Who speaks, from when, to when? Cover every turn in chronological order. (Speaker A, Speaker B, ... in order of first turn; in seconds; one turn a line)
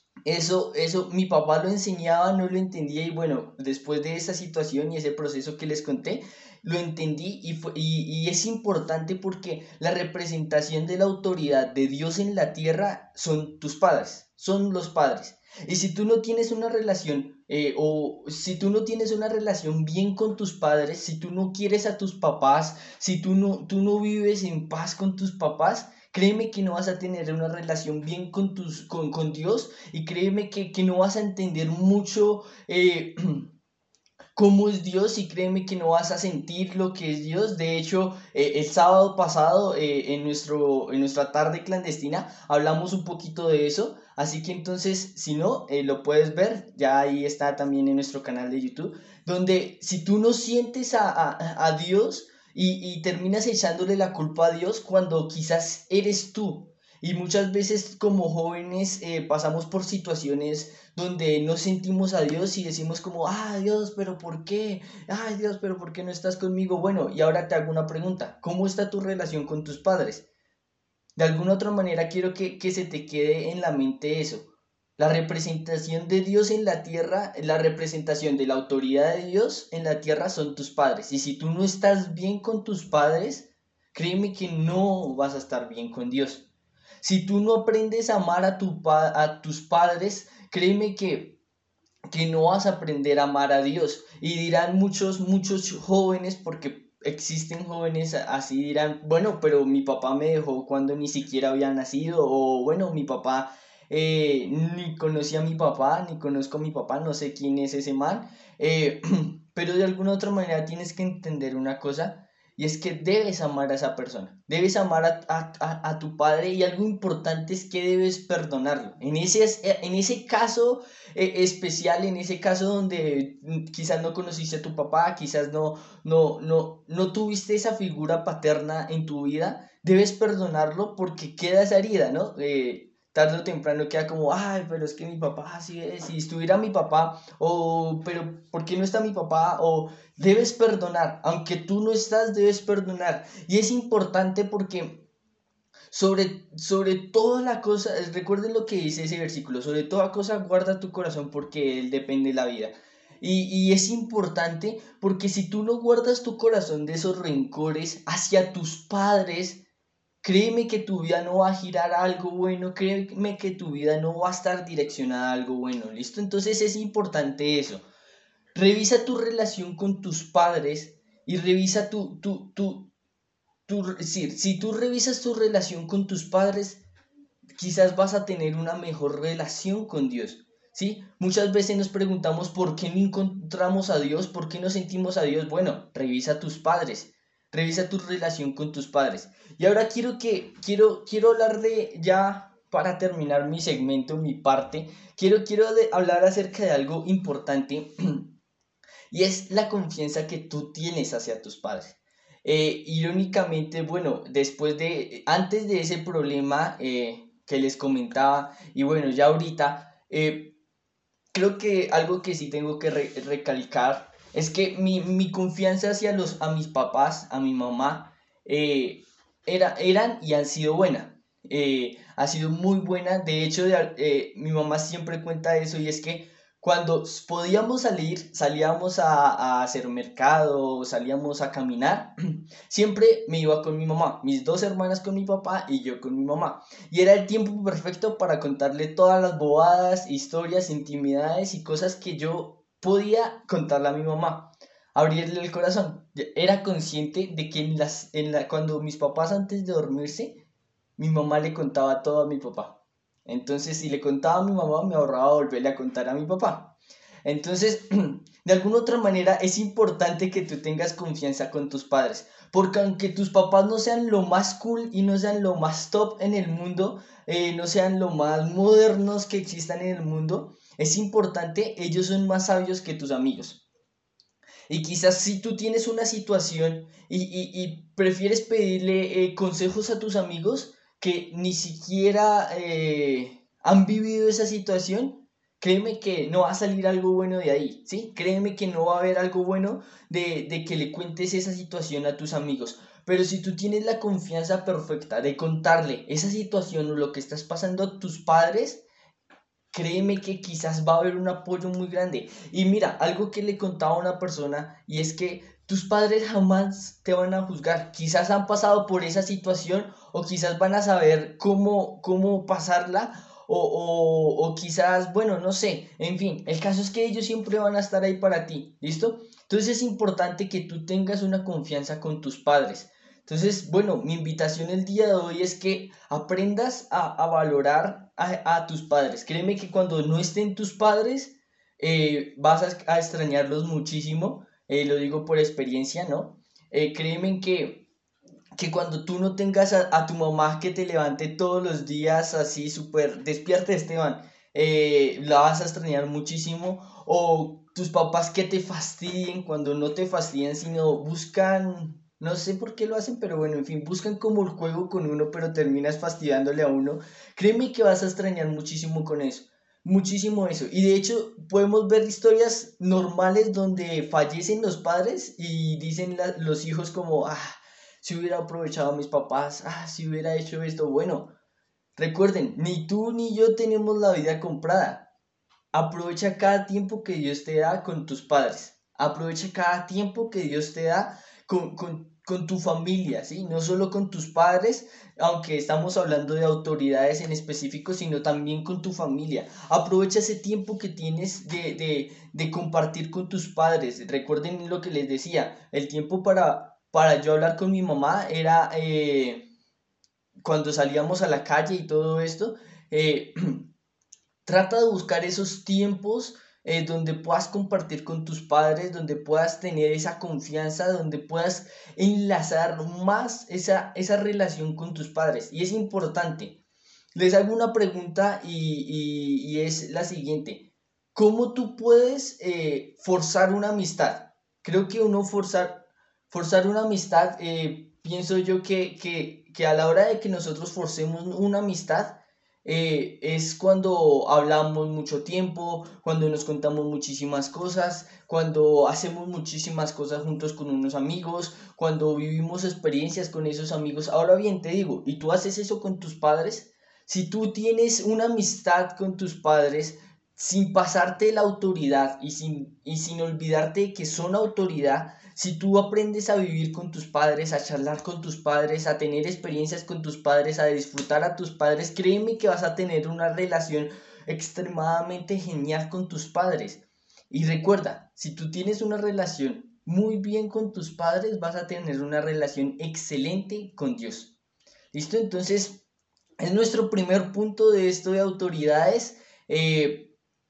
Speaker A: 0.3-33.5
Speaker A: 34.4-70.2
Speaker A: 71.2-86.5
Speaker A: 87.0-91.4
Speaker A: 92.1-145.0
Speaker A: 145.9-159.6
Speaker A: 160.2-167.8
Speaker A: 168.6-172.9
Speaker A: 173.7-176.8
Speaker A: 177.6-198.3
Speaker A: 199.1-210.6
Speaker A: 211.3-250.4
Speaker A: 251.0-273.6
Speaker A: 274.7-298.8
Speaker A: 299.7-337.9
Speaker A: 338.6-371.3
Speaker A: 372.0-375.1
Speaker A: 375.7-399.5
Speaker A: 400.4-403.7
Speaker A: 404.4-416.6
Speaker A: 417.1-474.3
Speaker A: 474.9-475.8
Speaker A: 476.4-480.1